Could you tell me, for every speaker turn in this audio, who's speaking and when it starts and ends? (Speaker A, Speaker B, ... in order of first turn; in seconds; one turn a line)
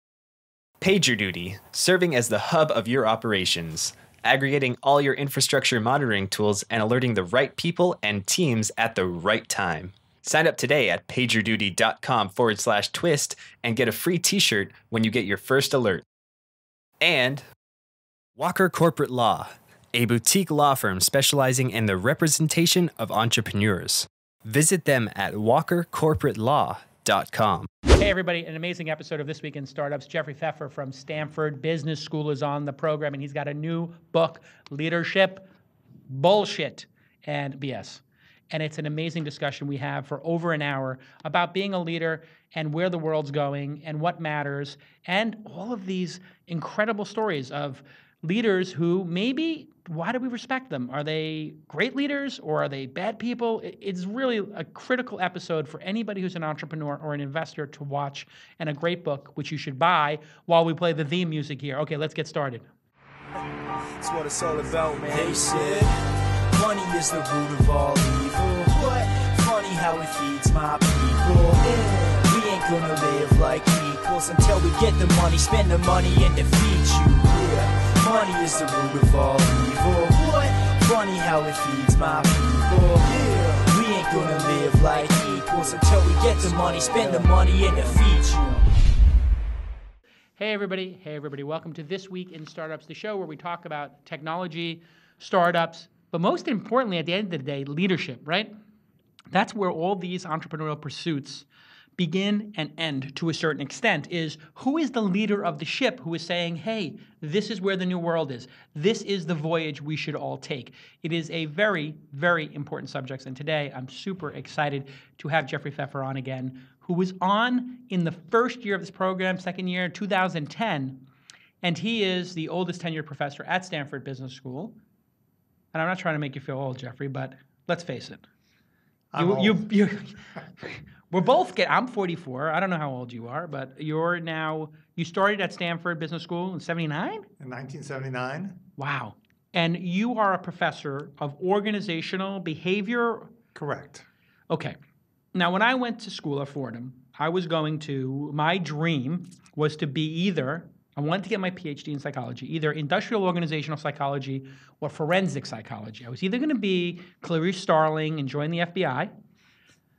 Speaker A: 0.8-16.0
Speaker A: 17.0-17.4
Speaker A: 18.4-27.7
Speaker B: 27.9-35.5
Speaker B: 36.1-62.7
Speaker C: 64.0-65.9
Speaker C: 66.5-88.7
Speaker B: 90.4-98.5
Speaker B: 99.3-101.5
Speaker B: 102.0-121.0
Speaker B: 121.6-124.8
Speaker B: 125.7-128.2
Speaker D: 129.1-129.7
Speaker B: 129.2-137.3
Speaker D: 137.4-138.6
Speaker B: 138.8-143.3
Speaker D: 143.5-144.0
Speaker B: 144.5-144.8
Speaker B: 145.3-159.1